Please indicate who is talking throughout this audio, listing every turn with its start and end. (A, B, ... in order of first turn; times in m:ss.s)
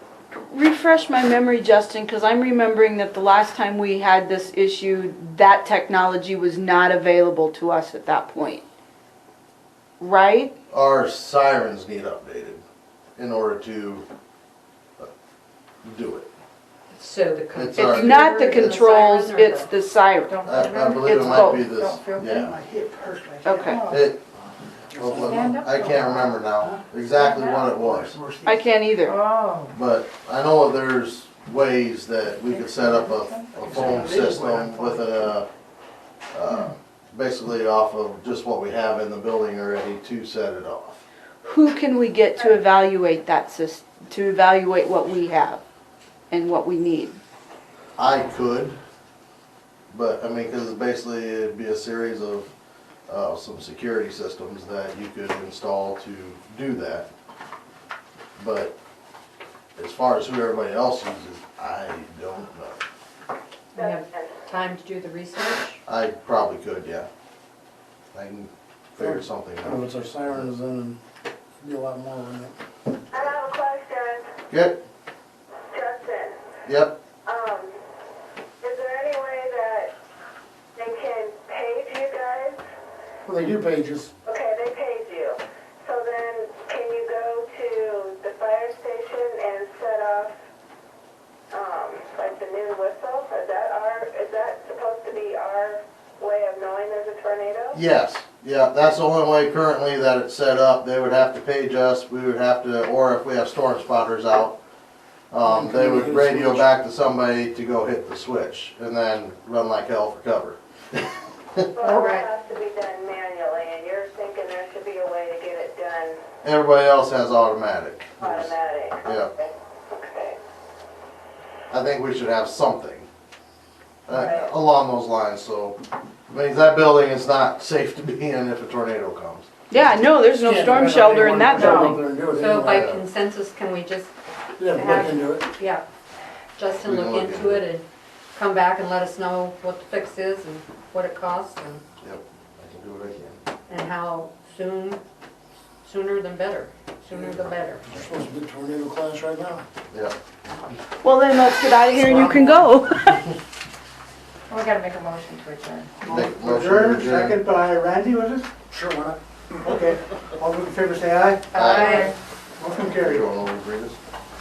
0:00.4-0:08.6 A
0:10.0-0:10.5 A
0:10.7-0:12.6 B
0:13.2-0:14.1 B
0:15.8-0:16.3 B
0:16.9-0:19.7 C
0:17.6-0:18.8 B
0:17.8-0:20.5 A
0:20.3-0:22.8 D
0:20.4-0:22.6 B
0:21.0-0:21.7 A
0:22.4-0:23.5 E
0:23.4-0:23.9 A
0:23.5-0:24.1 D
0:23.9-0:24.2 B
0:24.9-0:28.2 B
0:24.9-0:25.5 F
0:25.2-0:26.4 D
0:27.2-0:27.6 D
0:27.6-0:28.6 E
0:28.4-0:29.2 A
0:29.0-0:29.7 D
0:29.7-0:35.5 B
0:32.5-0:33.3 D
0:33.5-0:35.1 E
0:36.3-0:41.0 B
0:41.4-0:45.6 A
0:46.3-0:47.2 A
0:48.0-0:48.8 B
0:49.9-0:52.5 B
0:53.1-0:57.1 B
0:58.4-0:58.7 B
0:59.8-1:02.8 B
1:03.7-1:05.8 C
1:03.8-1:04.4 G
1:05.8-1:07.1 B
1:08.1-1:10.4 B
1:09.6-1:11.0 F
1:11.6-1:12.5 F
1:13.1-1:14.3 G
1:14.5-1:14.8 B
1:15.7-1:16.3 G
1:16.6-1:17.0 B
1:17.2-1:17.8 G
1:18.6-1:19.9 G
1:20.8-1:22.6 G
1:23.2-1:24.1 F
1:24.2-1:30.3 G
1:31.5-1:37.8 G
1:37.7-1:44.6 B
1:45.3-1:51.7 B
1:45.4-1:46.7 F
1:51.7-1:56.2 G
1:51.8-1:52.3 C
1:56.4-1:58.5 B
1:58.2-2:00.4 G
1:59.0-1:59.3 B
2:01.7-2:03.1 B
2:04.1-2:05.8 B
2:04.1-2:04.5 G
2:06.3-2:09.5 B
2:09.7-2:12.0 A
2:10.4-2:15.8 C
2:10.9-2:12.9 F
2:12.7-2:13.0 B
2:14.6-2:15.5 F
2:16.6-2:21.8 C
2:16.8-2:17.6 B
2:22.0-2:23.4 B
2:23.7-2:25.0 C
2:25.8-2:27.8 C
2:27.9-2:29.6 F
2:31.0-2:33.2 A
2:34.5-2:35.9 D
2:36.0-2:38.6 E
2:36.0-2:37.4 B
2:38.7-2:39.2 F
2:39.6-2:43.3 E
2:41.5-2:42.1 B
2:41.6-2:42.0 C
2:42.9-2:44.0 B